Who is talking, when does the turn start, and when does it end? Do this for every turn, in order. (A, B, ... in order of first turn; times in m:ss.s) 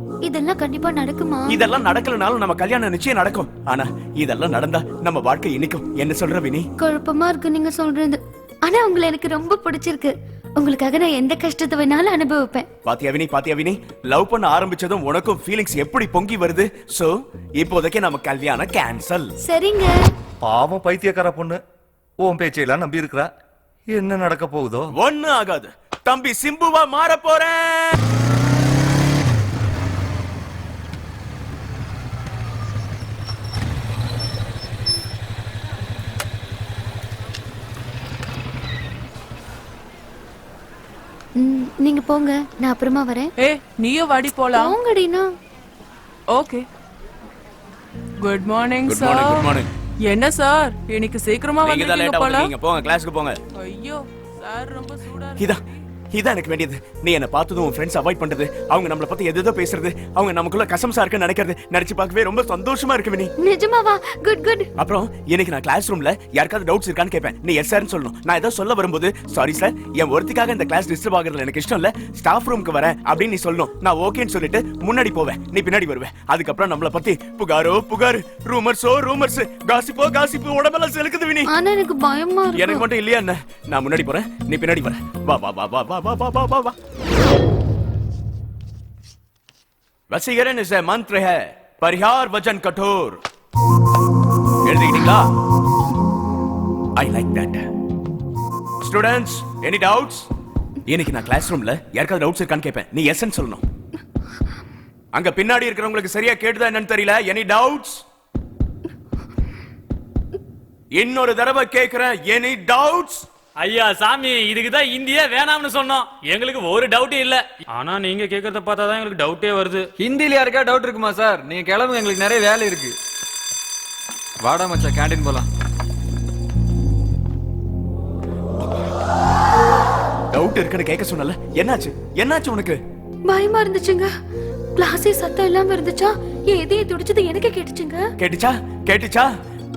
0:00.2-0:01.6 A
0:01.5-0:06.7 B
0:06.8-0:12.6 A
0:12.8-0:19.3 B
0:19.4-0:19.9 A
0:20.4-0:21.6 C
0:22.2-0:23.3 C
0:23.9-0:24.9 C
0:24.9-0:28.0 B
0:41.4-0:43.3 A
0:43.4-0:44.8 D
0:44.5-0:45.3 A
0:46.3-0:46.6 D
0:48.2-0:49.5 D
0:48.8-0:49.7 B
0:50.0-0:52.5 D
0:51.6-0:53.4 B
0:53.6-0:55.7 D
0:56.1-1:03.3 B
1:03.4-1:04.7 A
1:04.8-1:21.5 B
1:21.5-1:22.8 A
1:22.5-1:26.7 B
1:30.1-1:33.2 B
1:34.6-1:35.3 B
1:37.0-1:37.6 B
1:38.8-1:40.2 B
1:40.9-1:43.6 B
1:45.1-1:48.0 B
1:51.0-1:53.2 B
1:53.6-1:59.9 E
1:59.9-2:03.0 F
2:04.4-2:05.5 F
2:10.3-2:12.8 B
2:13.3-2:14.1 A
2:14.8-2:18.0 A
2:18.2-2:19.3 B